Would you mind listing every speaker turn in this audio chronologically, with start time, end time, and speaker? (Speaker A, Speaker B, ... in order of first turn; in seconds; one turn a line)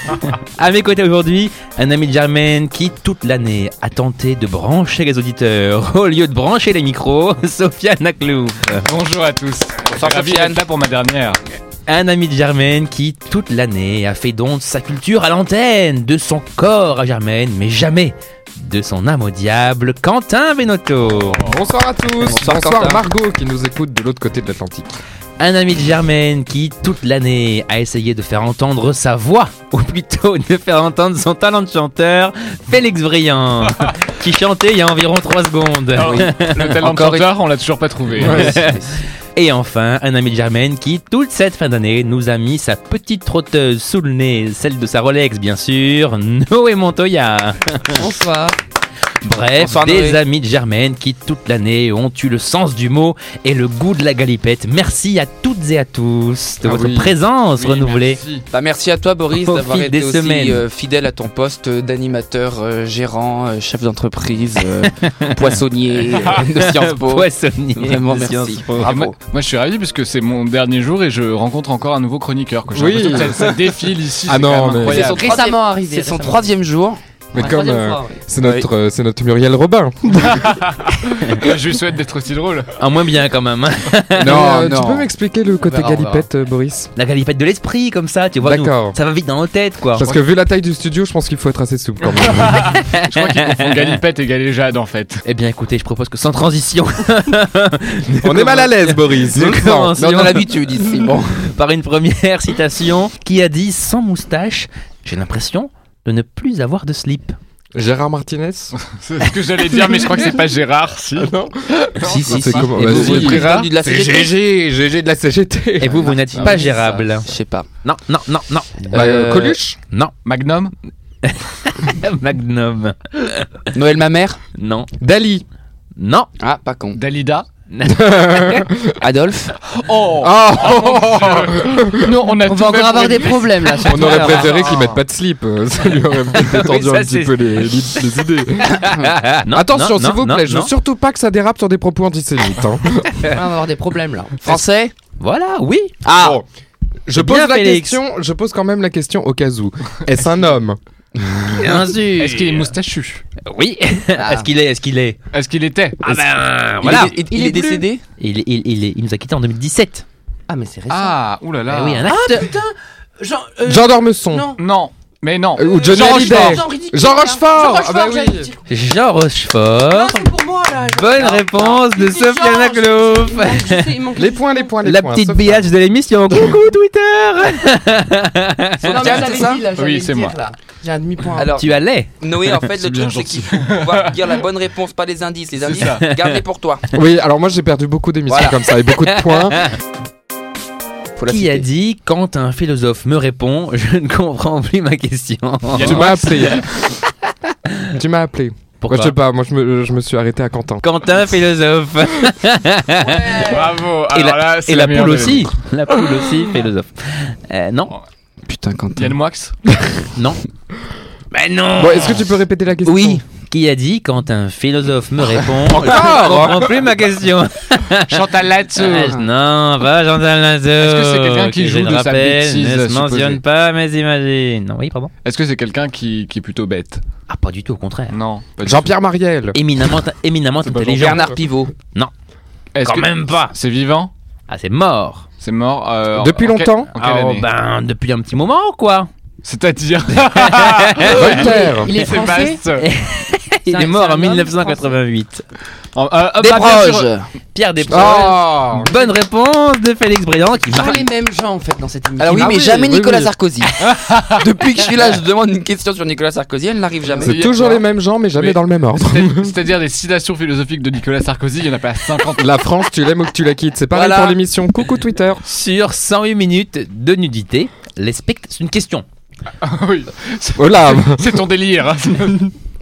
Speaker A: 0.3-8.9
Speaker B: 8.8-11.4
Speaker C: 9.9-10.6
Speaker A: 11.9-21.4
Speaker D: 21.3-24.9
Speaker C: 22.2-23.0
Speaker A: 25.4-37.3
Speaker B: 35.9-38.5
Speaker C: 36.0-36.3
Speaker D: 38.2-38.6
Speaker C: 38.2-39.0
Speaker A: 38.2-38.8
Speaker A: 39.3-48.0
Speaker E: 47.9-48.6
Speaker A: 49.2-58.2
Speaker C: 49.6-50.2
Speaker D: 56.6-57.1
Speaker B: 57.5-58.5
Speaker C: 58.5-69.1
Speaker A: 59.4-60.6
Speaker A: 64.9-65.4
Speaker B: 66.1-66.5
Speaker A: 66.2-69.0
Speaker B: 68.8-75.3
Speaker D: 72.7-73.6
Speaker D: 74.3-75.2
Speaker C: 74.8-77.0
Speaker E: 75.0-76.5
Speaker D: 77.3-80.4
Speaker E: 77.3-78.3
Speaker C: 78.4-78.7
Speaker B: 80.2-82.8
Speaker A: 82.8-84.4
Speaker D: 84.1-86.9
Speaker C: 84.2-85.1
Speaker A: 85.6-86.3
Speaker A: 86.9-90.0
Speaker D: 88.4-89.0
Speaker D: 89.9-92.7
Speaker B: 92.0-95.2
Speaker A: 92.7-94.0
Speaker A: 95.2-100.5
Speaker D: 98.2-99.9
Speaker C: 99.6-101.4
Speaker A: 101.4-107.4
Speaker D: 107.7-108.7
Speaker B: 108.8-113.7
Speaker D: 110.0-110.2
Speaker D: 111.2-116.6
Speaker C: 112.0-114.3
Speaker A: 112.8-113.6
Speaker A: 115.8-117.3
Speaker C: 115.9-117.7
Speaker A: 117.8-119.0
Speaker D: 118.9-119.8
Speaker C: 118.9-119.6
Speaker B: 120.2-120.7
Speaker A: 121.2-123.5
Speaker C: 123.7-124.4
Speaker A: 124.6-124.9
Speaker D: 125.0-125.4
Speaker A: 126.0-126.3
Speaker C: 126.4-127.0
Speaker B: 126.9-127.5
Speaker A: 127.7-128.7
Speaker D: 127.8-129.0
Speaker C: 129.0-129.6
Speaker B: 129.7-135.0
Speaker D: 130.2-132.2
Speaker E: 132.4-134.8
Speaker D: 133.8-143.4
Speaker A: 136.3-140.7
Speaker E: 143.2-144.4
Speaker C: 144.4-144.9
Speaker A: 145.2-145.9
Speaker C: 146.0-146.4
Speaker D: 146.1-146.4
Speaker D: 147.1-151.3
Speaker A: 147.1-148.0
Speaker A: 151.5-152.7
Speaker B: 152.2-153.2
Speaker A: 153.4-155.2
Speaker C: 154.2-154.5
Speaker B: 155.3-156.2
Speaker A: 156.0-157.1
Speaker C: 156.8-158.0
Speaker E: 157.2-157.8
Speaker A: 158.2-160.0
Speaker E: 160.5-161.2
Speaker B: 160.9-162.1
Speaker A: 161.7-162.5
Speaker E: 162.0-164.6
Speaker D: 163.6-164.5
Speaker B: 164.6-166.6
Speaker D: 165.6-168.5
Speaker E: 165.7-168.7
Speaker A: 168.7-170.3
Speaker E: 169.8-174.7
Speaker A: 170.9-173.9
Speaker D: 174.1-175.7
Speaker A: 174.8-179.2
Speaker C: 178.8-179.7
Speaker E: 178.8-181.6
Speaker B: 179.8-180.3
Speaker C: 181.3-186.9
Speaker A: 181.5-182.2
Speaker B: 182.5-184.4
Speaker B: 185.6-186.1
Speaker D: 186.9-189.7
Speaker C: 188.3-188.6
Speaker A: 189.1-189.7
Speaker C: 191.2-191.7
Speaker A: 191.3-196.5
Speaker B: 195.7-196.7
Speaker D: 195.8-196.6
Speaker D: 197.9-200.8
Speaker A: 198.8-199.1
Speaker A: 200.8-203.6
Speaker E: 203.0-203.5
Speaker B: 203.3-205.5
Speaker A: 204.1-207.9
Speaker C: 208.5-209.2
Speaker B: 208.9-209.5
Speaker A: 210.1-210.4
Speaker A: 211.3-212.3
Speaker D: 211.8-213.2
Speaker C: 212.8-213.2
Speaker A: 213.5-225.1
Speaker D: 215.6-216.8
Speaker B: 218.1-219.2
Speaker B: 220.8-223.4
Speaker B: 225.2-227.0
Speaker A: 227.3-228.2
Speaker B: 228.1-228.9
Speaker D: 228.6-229.6
Speaker A: 229.5-231.3
Speaker D: 230.6-231.3
Speaker C: 231.0-231.7
Speaker B: 232.7-234.1
Speaker A: 232.8-233.5
Speaker A: 234.5-235.2
Speaker B: 235.4-237.4
Speaker D: 236.1-236.9
Speaker A: 236.9-239.1
Speaker B: 239.4-242.9
Speaker A: 240.2-241.2
Speaker E: 241.1-242.6
Speaker D: 241.1-241.9
Speaker A: 242.8-245.4
Speaker E: 243.7-244.9
Speaker B: 245.9-247.1
Speaker C: 246.4-247.3
Speaker A: 247.5-251.0
Speaker D: 247.9-248.9
Speaker E: 250.7-252.6
Speaker D: 252.2-253.3
Speaker C: 252.2-253.8
Speaker B: 253.8-254.5
Speaker C: 254.4-257.4
Speaker B: 257.2-262.6
Speaker D: 257.2-259.5
Speaker D: 262.4-265.4
Speaker C: 263.9-264.4
Speaker A: 265.4-269.1
Speaker B: 269.6-272.5
Speaker D: 270.6-271.4